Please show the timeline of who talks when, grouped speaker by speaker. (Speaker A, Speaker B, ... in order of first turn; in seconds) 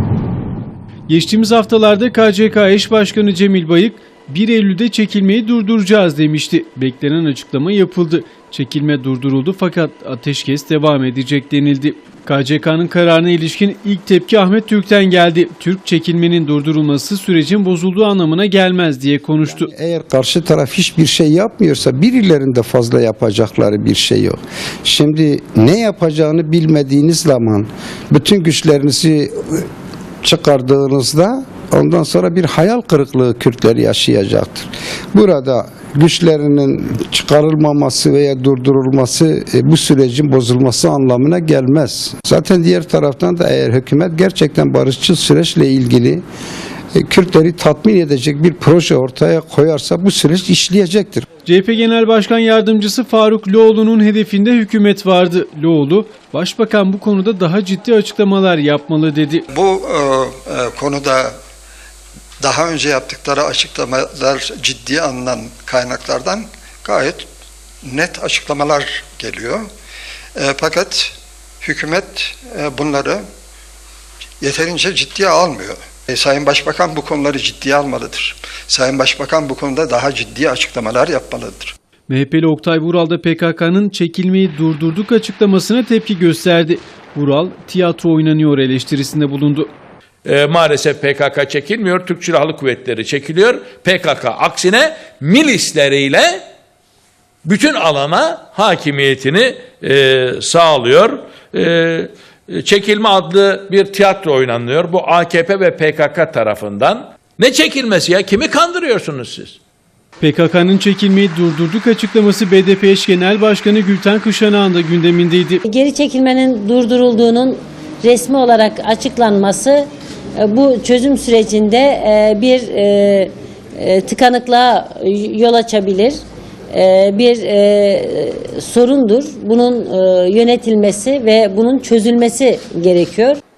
Speaker A: 1.1-19.7, 51.5-59.5, 82.1-89.7, 110.2-115.6
Speaker B: 19.5-29.7, 30.2-46.2, 47.0-51.2
Speaker C: 59.5-61.3, 62.4-67.3, 67.8-69.7, 70.4-73.2, 74.4-81.8
Speaker D: 90.2-96.5, 97.5-109.6
Speaker E: 115.6-126.2, 126.7-133.4